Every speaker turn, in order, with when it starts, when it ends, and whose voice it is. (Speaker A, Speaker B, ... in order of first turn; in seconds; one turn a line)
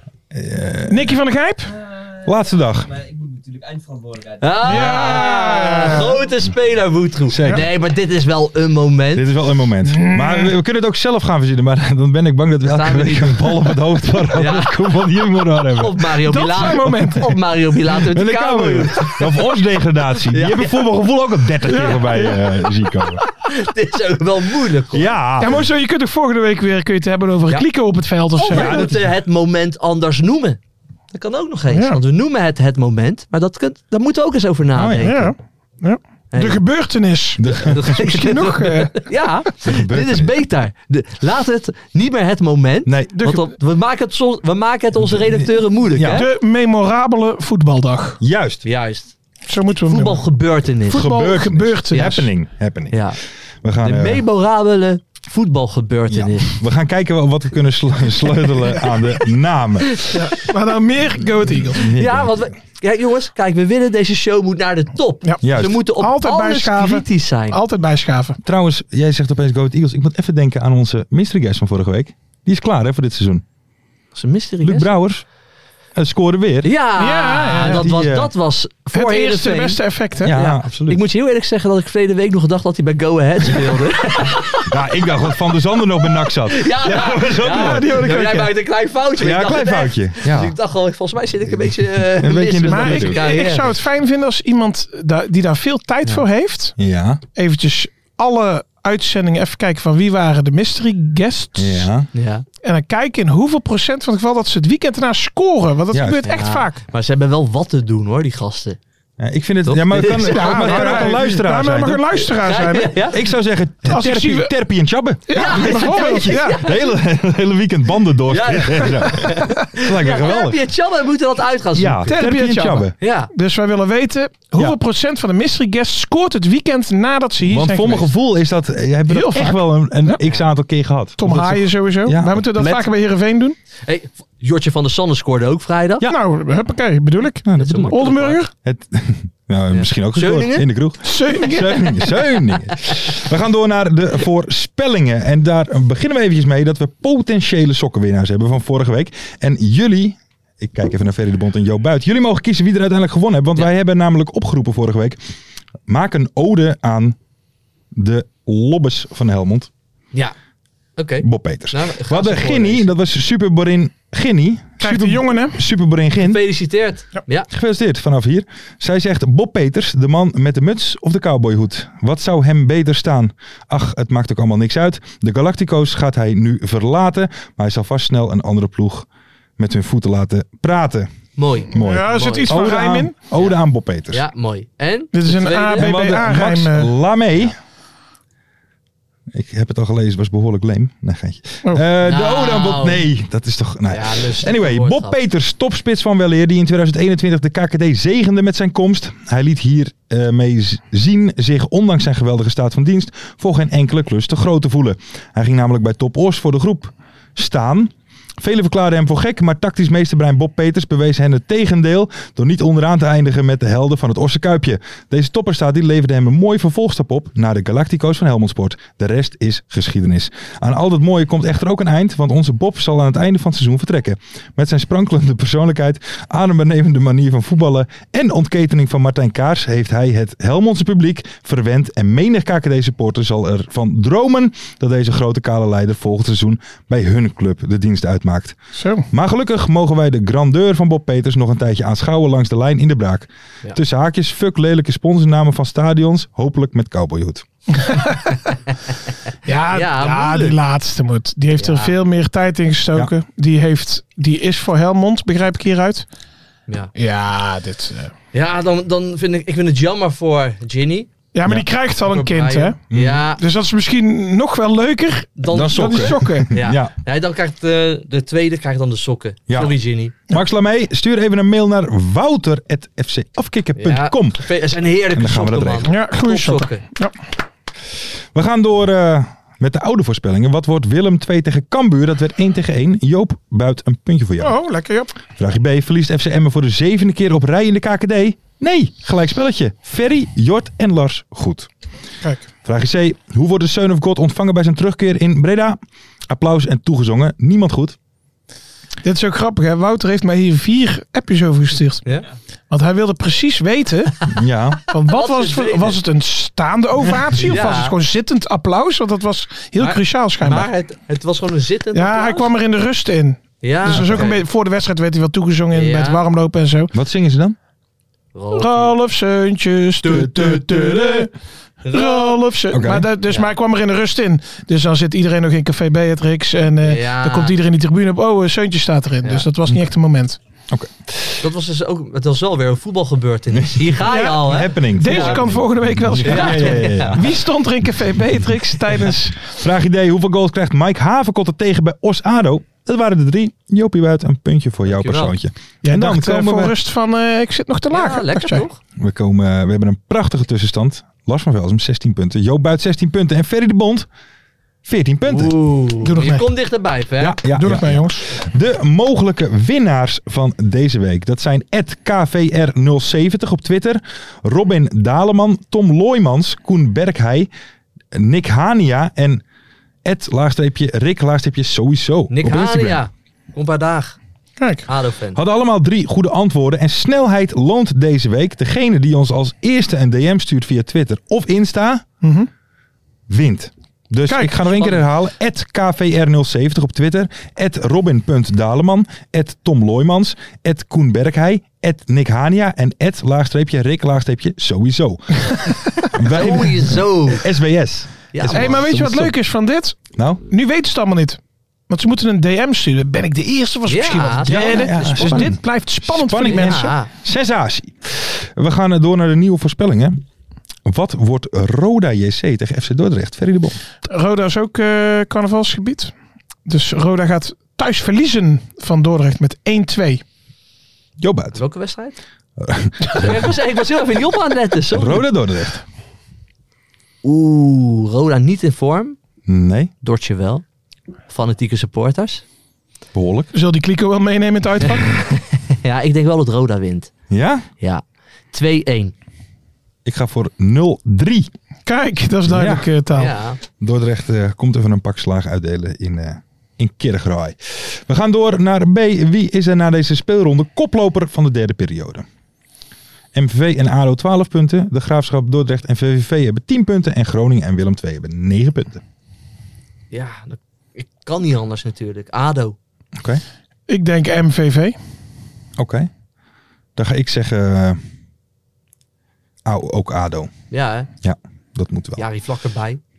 Speaker A: 0.3-1.2
Speaker B: 0.9-1.7
Speaker C: 1.6-6.4
Speaker A: 2.2-2.9
Speaker D: 4.4-9.3
Speaker B: 4.6-6.2
Speaker A: 7.3-7.7
Speaker A: 9.1-16.9
Speaker B: 9.9-10.5
Speaker D: 12.7-13.5
Speaker D: 14.3-14.8
Speaker D: 15.8-19.3
Speaker B: 16.2-17.3
Speaker A: 17.9-23.2
Speaker D: 20.3-20.8
Speaker B: 21.6-22.4
Speaker D: 23.3-25.1
Speaker A: 24.9-25.6
Speaker B: 25.4-28.9
Speaker D: 28.3-30.6
Speaker A: 28.5-29.0
Speaker D: 31.1-35.3
Speaker B: 31.7-32.0
Speaker A: 34.7-35.3
Speaker B: 35.0-39.1
Speaker D: 36.3-36.6
Speaker A: 37.4-37.9
Speaker D: 37.5-46.3
Speaker A: 39.6-40.3
Speaker A: 42.8-43.2
Speaker B: 43.1-43.5
Speaker A: 45.0-46.3
Speaker B: 46.1-48.2
Speaker A: 48.2-48.6
Speaker D: 48.6-49.1
Speaker B: 49.5-50.2
Speaker D: 49.9-51.1
Speaker B: 50.9-52.3
Speaker A: 50.9-53.0
Speaker D: 51.9-52.2
Speaker D: 52.9-53.2
Speaker A: 53.6-54.2
Speaker D: 53.8-56.5
Speaker A: 56.1-60.2
Speaker B: 60.1-61.9
Speaker A: 61.6-62.5
Speaker D: 61.9-67.6
Speaker A: 65.4-65.8
Speaker B: 66.0-68.4
Speaker A: 68.4-73.4
Speaker D: 74.1-74.9
Speaker A: 74.6-75.2
Speaker A: 75.9-76.7
Speaker D: 76.6-84.7
Speaker B: 77.0-77.9
Speaker A: 77.6-78.3
Speaker B: 78.9-80.4
Speaker A: 80.2-81.0
Speaker A: 84.6-88.1
Speaker D: 86.4-93.7
Speaker B: 86.8-88.5
Speaker A: 89.2-90.5
Speaker A: 91.9-93.2
Speaker B: 92.7-96.7
Speaker A: 96.8-97.2
Speaker B: 97.3-101.9
Speaker A: 101.5-102.1
Speaker D: 102.1-102.4
Speaker B: 102.6-106.8
Speaker A: 105.9-106.4
Speaker D: 106.2-108.8
Speaker A: 109.2-112.2
Speaker D: 109.6-111.2
Speaker B: 110.2-113.0
Speaker D: 112.3-113.2
Speaker A: 113.1-120.6
Speaker B: 113.9-114.5
Speaker B: 115.3-116.6
Speaker D: 115.3-117.0
Speaker D: 118.3-122.2
Speaker A: 121.7-122.9
Speaker B: 122.1-128.1
Speaker D: 123.0-123.3
Speaker A: 127.4-132.9
Speaker B: 129.1-130.2
Speaker B: 131.2-133.6
Speaker D: 133.8-136.1
Speaker B: 136.0-138.5
Speaker A: 137.4-138.0
Speaker D: 137.6-138.4
Speaker A: 138.6-155.2
Speaker D: 139.7-140.7
Speaker B: 141.0-141.9
Speaker D: 141.5-142.2
Speaker A: 155.9-157.2
Speaker A: 157.9-159.7
Speaker D: 161.0-162.9
Speaker A: 161.2-166.5
Speaker B: 164.8-165.6
Speaker D: 166.2-167.5
Speaker A: 167.5-179.1
Speaker A: 179.6-181.1
Speaker D: 181.4-182.7
Speaker A: 181.7-184.2
Speaker B: 181.7-183.1
Speaker D: 184.1-185.9
Speaker B: 185.1-186.9
Speaker A: 185.7-187.5
Speaker A: 189.3-238.6
Speaker D: 192.0-193.1
Speaker D: 193.9-195.2
Speaker B: 238.7-239.1
Speaker A: 239.1-247.4
Speaker B: 247.9-248.3
Speaker B: 249.4-256.1
Speaker D: 249.7-250.6
Speaker D: 251.6-251.9
Speaker B: 256.9-258.1
Speaker D: 258.3-261.1
Speaker B: 261.3-262.8
Speaker D: 262.0-263.4
Speaker A: 262.9-263.2
Speaker B: 263.3-266.5
Speaker D: 265.4-270.1
Speaker A: 265.5-266.9
Speaker A: 269.5-269.8
Speaker A: 270.3-274.4
Speaker D: 273.8-276.8
Speaker A: 275.1-275.9
Speaker B: 275.9-277.1
Speaker A: 278.3-284.6
Speaker B: 284.4-285.1
Speaker A: 285.4-291.7
Speaker A: 292.6-297.9
Speaker B: 299.0-302.0
Speaker B: 302.7-304.2
Speaker A: 304.3-304.8
Speaker B: 304.9-310.7
Speaker D: 305.1-306.0
Speaker D: 307.4-307.9
Speaker D: 309.8-312.5
Speaker B: 311.9-316.9
Speaker D: 313.6-314.4
Speaker A: 313.9-314.3
Speaker D: 315.7-316.2
Speaker A: 316.9-317.6
Speaker D: 318.3-318.9
Speaker B: 318.5-321.3
Speaker D: 320.0-321.3
Speaker D: 321.8-322.4
Speaker B: 321.9-330.4
Speaker A: 322.7-323.1
Speaker D: 323.3-323.5
Speaker D: 326.8-327.5
Speaker A: 330.7-331.4
Speaker D: 331.4-335.6
Speaker A: 333.5-337.4
Speaker B: 334.0-339.5
Speaker D: 336.2-337.2
Speaker A: 339.5-346.8
Speaker D: 344.9-345.3
Speaker B: 345.8-348.6
Speaker D: 347.9-348.8
Speaker A: 349.0-354.1
Speaker A: 354.8-355.5
Speaker D: 355.2-357.4
Speaker B: 356.0-356.5
Speaker A: 357.2-367.5
Speaker B: 357.5-358.3
Speaker A: 368.1-369.4
Speaker A: 370.0-373.0
Speaker D: 372.3-374.2
Speaker B: 374.6-374.9
Speaker D: 374.9-375.4
Speaker A: 375.3-382.0
Speaker B: 382.2-382.5
Speaker A: 383.3-399.3
Speaker B: 384.3-384.6
Speaker D: 384.7-385.0
Speaker D: 396.2-397.4
Speaker D: 398.3-398.9
Speaker B: 398.5-400.0
Speaker A: 400.1-400.4
Speaker B: 400.5-406.9
Speaker D: 403.9-405.5
Speaker A: 404.4-410.2
Speaker D: 406.4-407.1
Speaker A: 410.9-413.8
Speaker B: 414.1-416.1
Speaker B: 416.6-420.2
Speaker A: 421.2-421.6
Speaker D: 421.5-422.2
Speaker A: 422.6-423.5
Speaker D: 423.1-425.3
Speaker A: 424.9-425.8
Speaker D: 427.2-429.2
Speaker A: 429.5-429.9
Speaker D: 430.0-430.6
Speaker D: 431.3-432.4
Speaker A: 433.1-433.5
Speaker B: 433.5-435.2
Speaker D: 434.9-437.1
Speaker A: 437.3-437.6
Speaker D: 437.8-439.1
Speaker A: 440.0-441.5
Speaker B: 441.9-443.3
Speaker A: 442.5-442.9
Speaker D: 443.1-443.6
Speaker A: 443.8-452.2
Speaker A: 453.3-459.0
Speaker D: 460.1-462.8
Speaker A: 463.1-463.4
Speaker B: 463.9-465.0
Speaker A: 465.8-466.1
Speaker A: 466.9-468.0
Speaker A: 469.6-470.5
Speaker D: 470.7-471.1
Speaker A: 471.2-472.2
Speaker D: 472.2-473.0